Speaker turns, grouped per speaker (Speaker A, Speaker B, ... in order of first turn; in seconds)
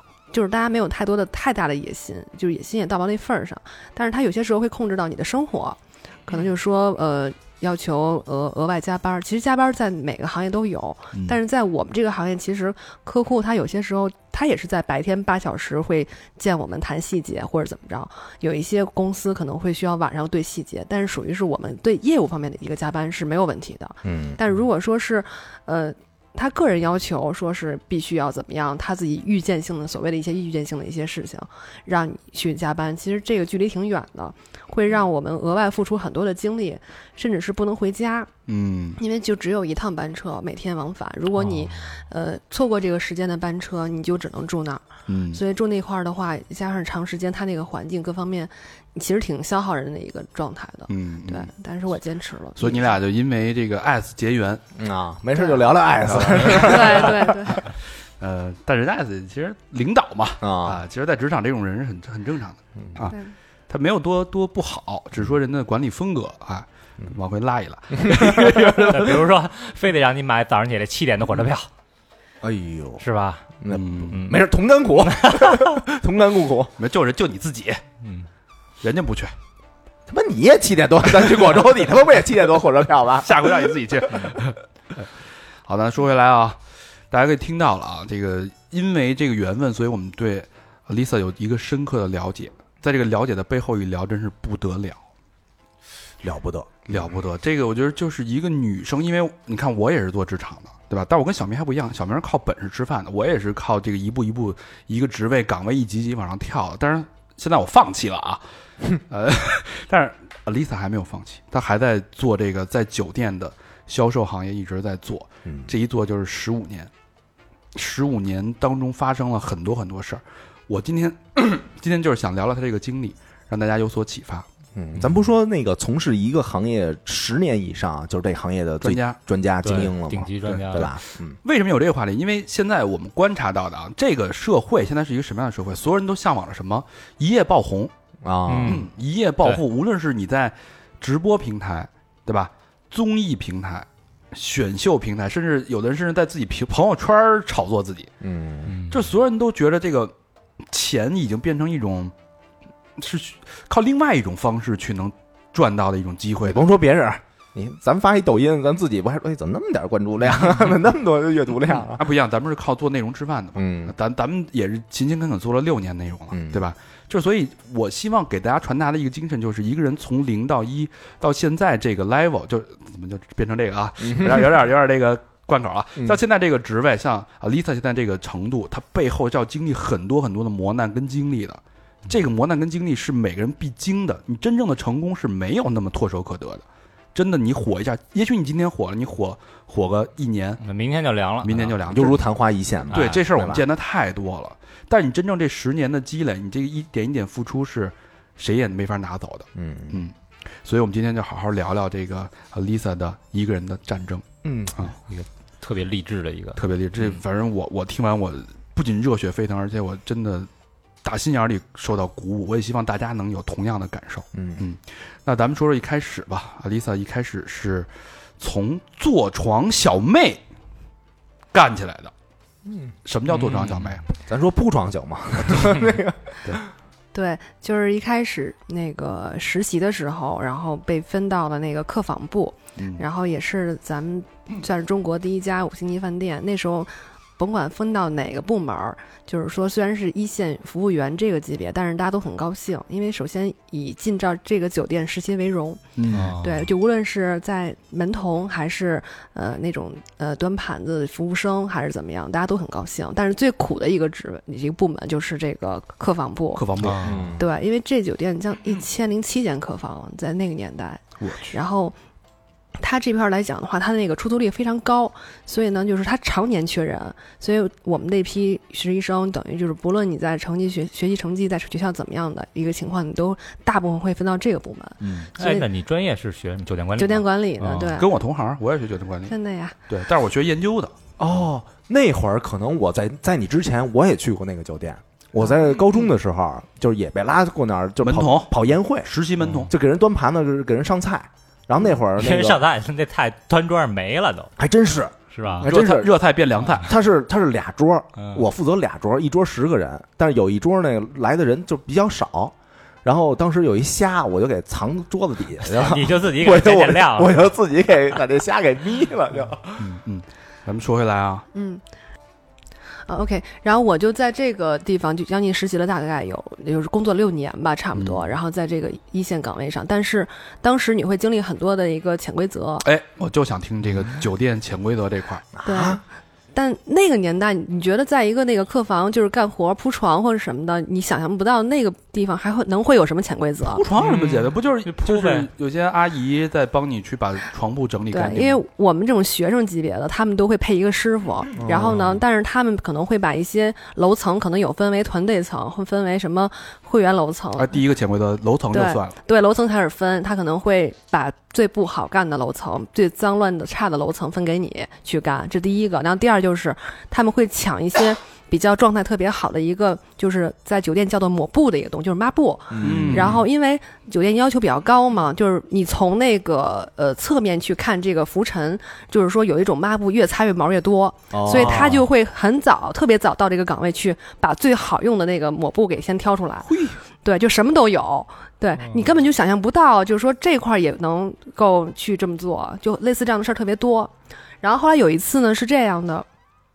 Speaker A: 0.3-38.3, 39.0-52.9, 55.4-55.6, 56.5-57.6, 63.1-63.3, 227.1-245.8, 246.4-256.7, 257.4-261.9, 262.8-275.7, 277.0-278.1, 279.3-279.8, 311.5-311.8, 313.1-322.9, 325.6-326.0, 326.5-333.8, 338.1-347.8, 348.7-386.3
Speaker B: 24.0-24.4, 54.8-57.6, 60.4-60.8, 68.0-68.8, 72.4-73.0, 73.6-76.7, 80.1-84.4, 96.2-97.0, 115.5-115.7, 124.8-131.4, 138.2-138.9, 148.2-148.8, 156.4-162.0, 163.6-163.9, 166.3-166.6, 174.0-174.5, 191.9-193.7, 199.6-200.0, 204.4-204.9, 214.3-214.6, 222.7-222.9, 223.5-226.6, 257.0-257.4, 275.0-275.3, 281.2-289.1, 289.6-292.6, 294.6-296.2, 296.8-309.9, 325.5-326.0, 362.7-363.4, 371.3-372.0
Speaker C: 38.5-39.0, 45.1-45.4, 50.9-51.5, 52.6-54.6, 56.0-57.7, 58.2-63.2, 63.7-69.2, 73.7-74.2, 76.8-77.8, 78.8-79.3, 83.2-84.6, 85.7-86.6, 87.1-95.0, 96.9-108.4, 108.9-116.9, 117.7-124.5, 128.8-129.2, 130.5-137.9, 138.7-148.1, 148.9-150.1, 150.7-152.1, 153.0-156.7, 161.7-186.6, 187.2-190.6, 191.4-192.2, 192.9-200.1, 200.6-204.2, 206.6-210.5, 211.0-217.9, 218.4-220.4, 221.5-222.1, 223.1-224.0, 225.5-225.8, 232.8-233.0, 246.0-246.4, 256.6-257.3, 261.2-261.6, 278.0-279.3, 279.9-280.9, 288.0-289.7, 295.6-296.9, 309.8-311.5, 317.9-318.3, 322.8-325.5, 333.6-338.6, 341.7-341.9, 347.6-349.1, 362.8-363.4, 371.6-371.9, 376.7-377.0
Speaker D: 41.4-41.7, 68.7-71.7, 73.0-73.5, 74.1-74.4, 75.0-75.8, 78.0-78.3, 129.6-130.9, 138.5-138.8, 148.7-149.0, 190.6-191.8, 205.1-206.6, 246.1-246.7, 256.8-257.3, 275.4-278.0, 289.4-289.7, 292.1-294.5, 295.3-295.7, 305.6-307.4, 334.0-335.5, 341.6-342.1